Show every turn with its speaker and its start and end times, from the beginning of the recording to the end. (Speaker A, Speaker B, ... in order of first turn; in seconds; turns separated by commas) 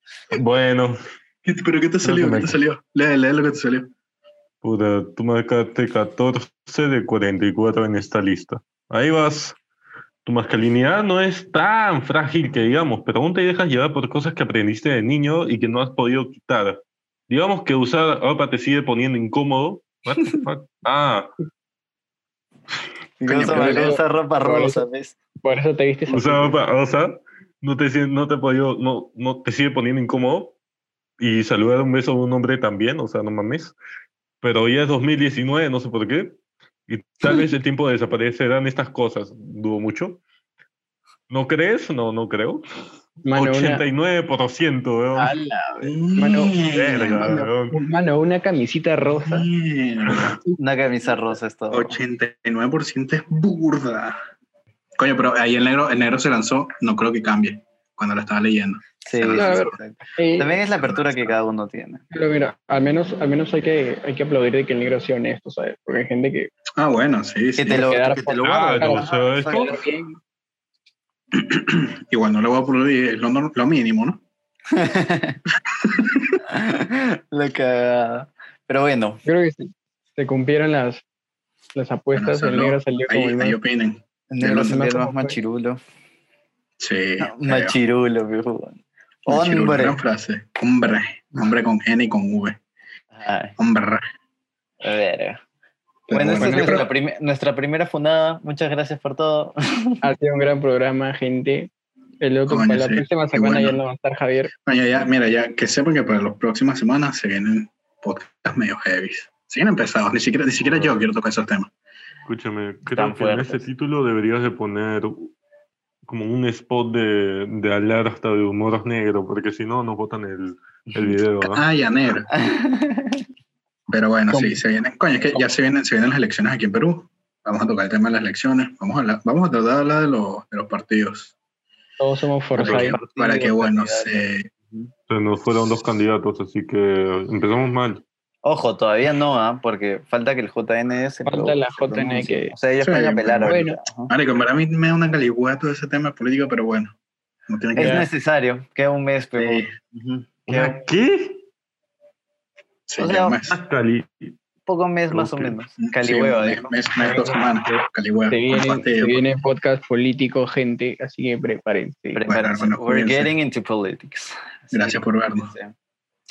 Speaker A: 0.3-0.9, Speaker B: 1.4-3.9, Speaker A: 2.0-2.6, Speaker A: 4.6-9.6, Speaker A: 10.2-21.3, Speaker C: 23.2-25.1, Speaker D: 23.3-24.8, Speaker D: 25.4-26.6, Speaker A: 26.1-30.6, Speaker A: 31.2-33.8, Speaker A: 34.4-40.2, Speaker A: 41.3-42.6, Speaker D: 43.2-43.8, Speaker A: 43.3-45.3, Speaker D: 45.1-49.5, Speaker B: 45.8-47.3, Speaker A: 46.6-47.8, Speaker B: 49.2-50.4, Speaker C: 50.6-52.0, Speaker B: 51.7-54.1, Speaker B: 55.0-59.6, Speaker C: 59.0-62.0, Speaker D: 59.3-60.5, Speaker B: 60.8-61.3, Speaker D: 62.1-66.5, Speaker B: 66.8-67.9, Speaker C: 67.6-69.8, Speaker D: 67.7-70.2, Speaker A: 68.4-69.8, Speaker B: 71.3-74.2, Speaker C: 74.7-75.4, Speaker B: 75.7-76.4, Speaker C: 76.5-79.2, Speaker D: 79.2-81.0, Speaker D: 81.7-83.6, Speaker B: 82.1-84.8, Speaker C: 84.3-85.8, Speaker D: 84.6-85.3, Speaker B: 86.8-87.8, Speaker C: 87.2-90.0, Speaker B: 89.2-92.6, Speaker C: 93.1-93.5, Speaker B: 93.6-94.0, Speaker C: 94.8-95.4, Speaker B: 96.1-96.9, Speaker C: 96.1-100.0, Speaker D: 96.3-96.8, Speaker D: 100.0-101.7, Speaker D: 102.2-104.5, Speaker B: 102.5-103.8, Speaker B: 104.7-111.7, Speaker A: 110.6-111.0, Speaker A: 112.2-115.3, Speaker C: 112.9-113.7, Speaker A: 116.0-121.6, Speaker B: 121.4-122.3, Speaker C: 122.3-123.2, Speaker B: 123.9-131.3, Speaker D: 124.3-124.6, Speaker D: 132.0-133.4, Speaker B: 132.6-134.5, Speaker A: 132.6-133.0, Speaker C: 132.7-134.8, Speaker A: 135.1-138.0, Speaker C: 138.4-144.1, Speaker D: 141.2-142.6, Speaker B: 142.8-146.9, Speaker D: 143.4-143.8, Speaker B: 147.5-148.1, Speaker C: 147.8-150.8, Speaker D: 147.8-148.1, Speaker B: 149.4-149.7, Speaker A: 150.5-151.4, Speaker B: 152.9-153.6, Speaker C: 153.0-153.4, Speaker A: 153.5-154.3, Speaker C: 154.7-156.7, Speaker A: 155.1-155.6, Speaker B: 155.8-159.3, Speaker D: 157.0-162.2, Speaker C: 162.1-165.7, Speaker B: 162.2-163.3, Speaker B: 164.7-165.5